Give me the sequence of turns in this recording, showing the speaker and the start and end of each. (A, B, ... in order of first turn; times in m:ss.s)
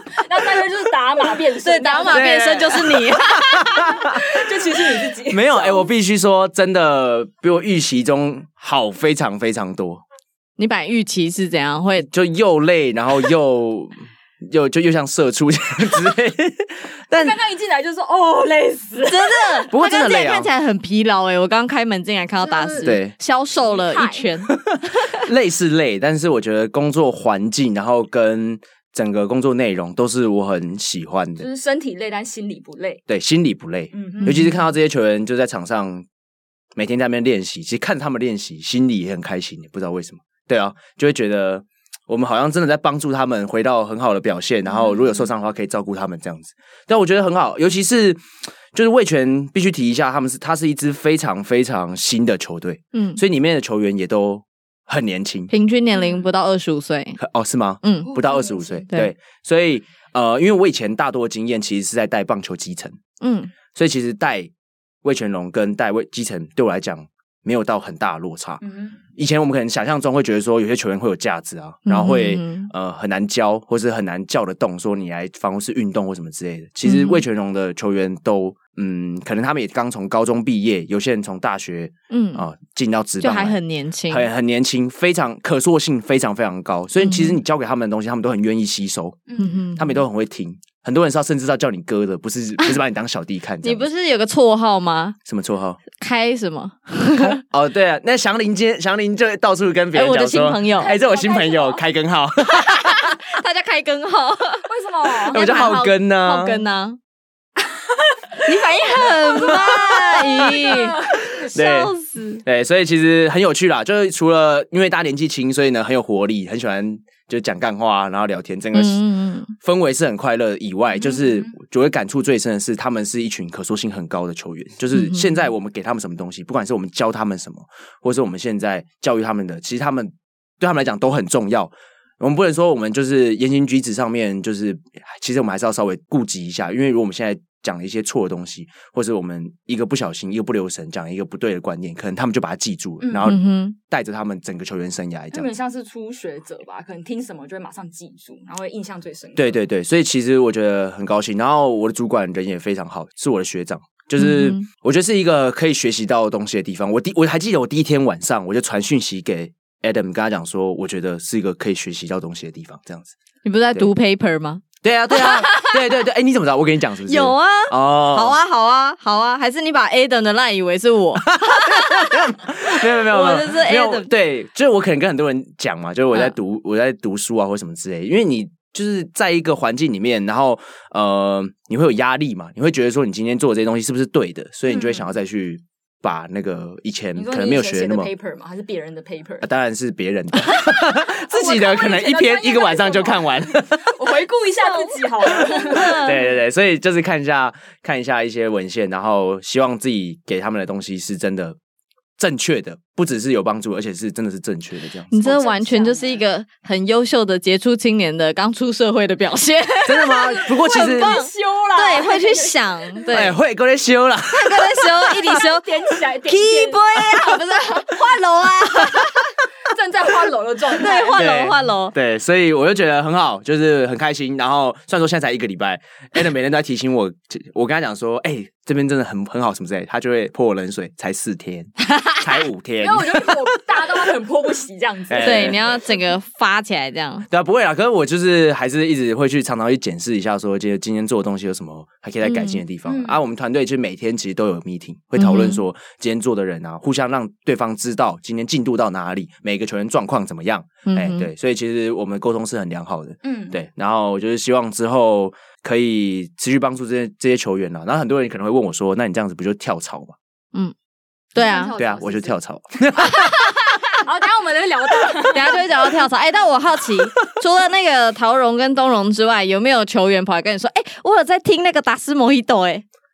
0:00.2-0:02.7 A
0:01.6-0:03.6 B
0:02.1-0:04.3 C
0:03.7-0:05.9 A
0:05.3-0:10.0 C
0:10.6-0:12.1 B
0:12.0-0:17.4 C
0:17.1-0:19.7 A
0:19.1-0:25.2 B
0:19.7-0:20.5 C
0:22.4-0:22.9 A
0:22.8-0:23.1 C
0:23.6-0:24.3 A
0:24.7-0:31.5 C
0:31.4-0:33.0 A
0:33.1-0:36.1 C
0:33.9-0:34.5 A
0:34.2-0:34.6 B
0:36.8-0:55.5 C
0:52.9-0:53.2 B
0:55.5-0:57.2 B
0:55.9-0:56.3 A
0:57.2-1:03.0 C
0:57.8-0:58.1 B
0:58.0-0:58.9 A
1:03.2-1:03.5 B
1:03.7-1:04.5 C
1:05.0-1:08.6 C
1:08.6-1:09.0 A
1:09.2-1:23.6 C
1:11.9-1:12.7 B
1:16.8-1:17.2 B
1:22.1-1:22.4 B
1:23.2-1:24.3 B
1:24.1-1:29.2 C
1:27.0-1:27.4 B
1:29.3-1:29.6 A
1:29.4-1:30.0 B
1:29.8-1:33.9 C
1:33.6-1:35.2 B
1:35.3-1:35.8 C
1:36.0-1:37.4 B
1:37.2-1:43.1 C
1:39.9-1:40.9 B
1:40.8-1:41.8 A
1:42.5-1:44.7 B
1:44.7-1:45.4 A
1:45.2-1:47.0 B
1:45.3-1:46.6 C
1:48.4-1:51.3 A
1:48.4-1:52.4 B
1:49.4-1:50.0 C
1:51.2-1:51.9 C
1:52.4-1:59.0 C
1:58.7-1:59.5 B
1:59.6-2:25.5 C
2:04.9-2:05.2 B
2:23.0-2:23.3 A
2:23.2-2:23.8 B
2:25.3-2:29.6 A
2:29.4-2:43.1 C
2:34.2-2:34.7 B
2:43.4-2:45.9 B
2:44.8-2:48.4 C
2:47.1-2:54.1 B
2:51.2-3:08.1 C
3:07.2-3:09.5 A
3:09.4-3:14.0 C
3:11.1-3:16.1 A
3:14.6-3:16.2 B
3:15.7-3:21.6 C
3:22.2-3:25.2 C
3:25.1-3:33.4 B
3:25.2-3:26.2 A
3:29.8-3:31.1 C
3:30.0-3:33.0 A
3:33.1-3:34.9 C
3:34.3-3:39.2 B
3:35.1-3:38.0 A
3:39.6-3:41.3 A
3:40.7-3:41.9 B
3:41.2-3:53.8 C
3:52.8-3:55.8 A
3:55.1-3:55.6 C
3:55.2-3:57.3 B
3:57.3-4:20.2 C
4:02.2-4:02.6 B
4:02.9-4:03.2 A
4:05.2-4:05.6 B
4:10.9-4:11.3 B
4:13.2-4:13.6 A
4:21.4-4:21.8 B
4:21.4-4:22.4 A
4:21.8-4:23.5 C
4:23.9-4:25.8 A
4:25.2-4:32.8 B